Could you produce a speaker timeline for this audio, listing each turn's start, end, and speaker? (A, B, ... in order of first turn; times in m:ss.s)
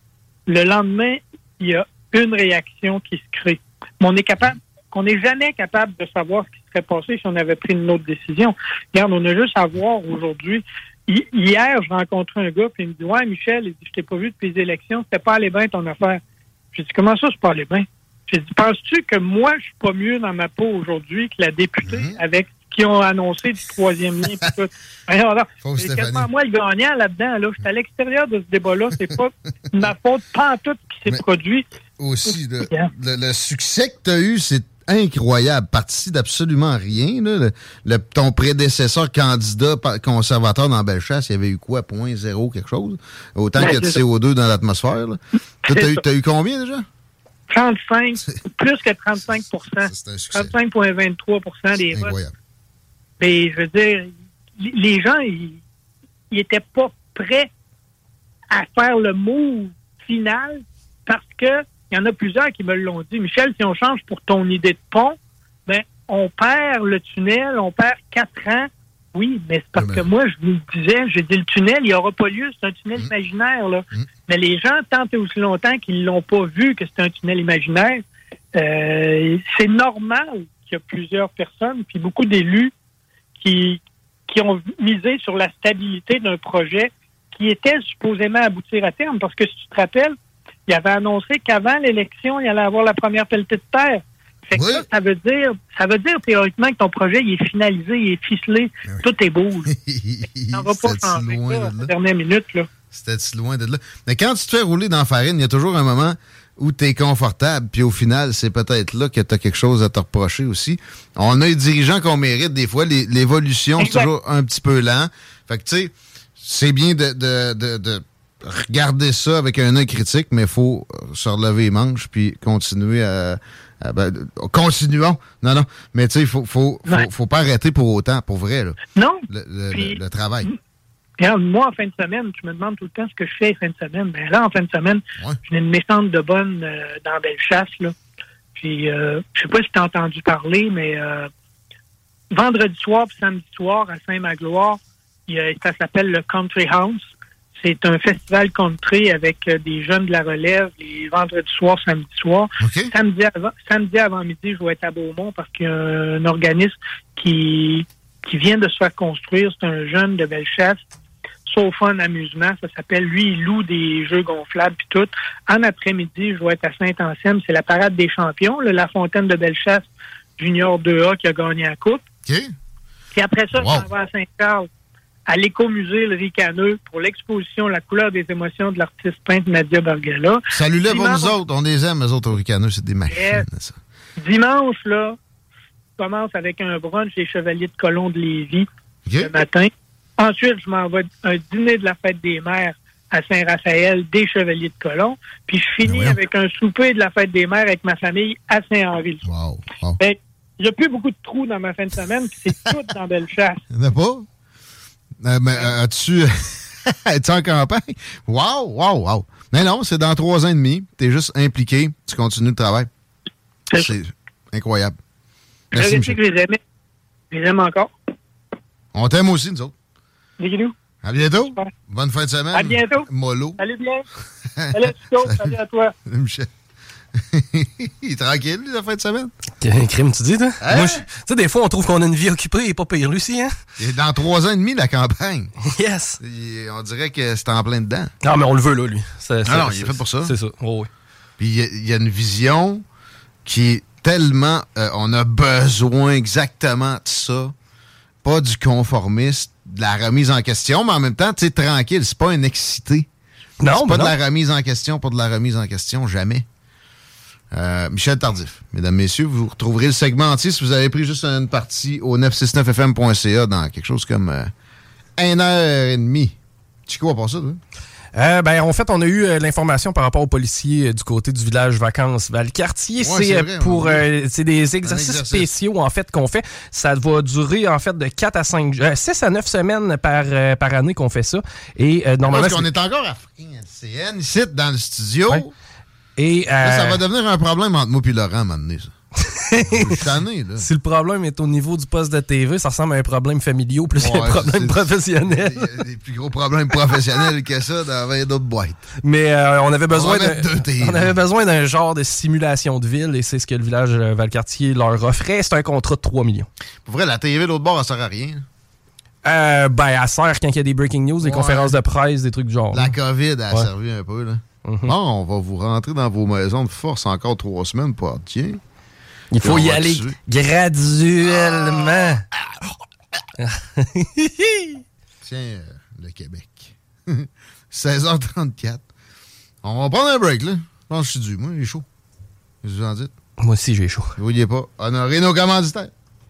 0:00.5-0:16.2 A
0:16.7-0:31.7 A
0:21.8-0:22.2 B
0:25.6-0:26.3 B
0:32.0-0:46.8 B
0:32.3-0:32.9 A
0:43.6-0:44.0 A
0:45.6-0:46.0 A
0:47.5-0:52.2 A
0:49.3-0:50.6 B
0:51.9-0:52.3 B
0:53.2-0:55.6 A
0:56.3-0:57.5 A
0:58.5-1:18.0 A
1:09.8-1:10.0 B
1:18.5-1:22.7 A
1:23.4-1:30.1 A
1:30.7-1:39.7 A
1:34.5-1:34.8 B
1:39.7-1:41.9 B
1:40.5-1:42.7 A
1:42.9-2:08.8 B
1:53.8-1:54.1 A
2:08.9-2:10.6 A
2:09.3-2:10.5 B
2:11.2-2:17.9 A
2:18.5-2:21.3 A
2:22.3-2:40.8 A
2:32.6-2:32.9 B
2:41.4-2:52.0 A
2:52.2-2:52.5 B
2:53.1-2:54.7 A
2:53.5-2:53.9 B
2:55.3-3:01.3 A
3:00.5-3:03.8 B
3:03.1-3:03.4 A
3:04.2-3:05.2 A
3:06.0-3:08.6 A
3:09.0-3:09.4 B
3:09.2-3:19.2 A
3:15.8-3:16.2 B
3:19.2-3:20.0 B
3:20.0-3:23.6 A
3:23.7-3:24.3 B
3:25.2-3:32.9 B
3:33.7-3:35.0 B
3:35.7-3:36.2 B
3:35.7-3:36.6 A
3:37.3-3:37.9 A
3:38.9-3:39.7 B
3:40.4-3:40.7 A
3:41.0-3:43.6 B
3:42.5-3:43.1 A
3:43.6-3:44.0 A
3:44.6-3:45.5 B
3:44.7-3:45.9 A
3:46.0-3:46.5 B
3:47.1-3:49.3 B
3:49.6-3:53.6 C
3:50.6-3:51.0 B
3:53.8-3:55.5 B
3:55.7-3:56.2 C
3:56.2-3:58.1 B
3:58.2-4:00.9 C
3:59.4-4:00.3 B
4:01.4-4:02.8 B
4:03.4-4:07.5 B
4:08.2-4:13.1 B
4:13.6-4:14.1 C
4:13.7-4:16.4 B
4:17.5-4:24.5 B
4:25.2-4:26.4 B
4:26.9-4:27.6 B
4:28.1-4:42.6 C
4:33.0-4:34.0 B
4:34.8-4:35.5 B
4:42.2-4:45.5 B
4:46.2-4:47.0 C
4:46.6-4:48.9 B
4:49.5-4:50.0 C
4:49.7-4:50.7 B
4:50.6-4:55.7 C
4:54.0-4:58.8 B
4:59.0-5:06.5 C
4:59.9-5:01.2 B
5:06.8-5:08.4 B
5:09.2-5:12.9 C
5:11.2-5:11.8 B
5:12.7-5:18.6 B
5:14.7-5:14.9 C
5:19.3-5:22.2 C
5:19.4-5:20.2 B
5:23.4-5:24.8 C
5:25.2-5:28.8 B
5:29.6-5:31.8 B
5:32.6-5:33.1 B
5:33.4-5:34.1 C
5:34.2-5:35.9 B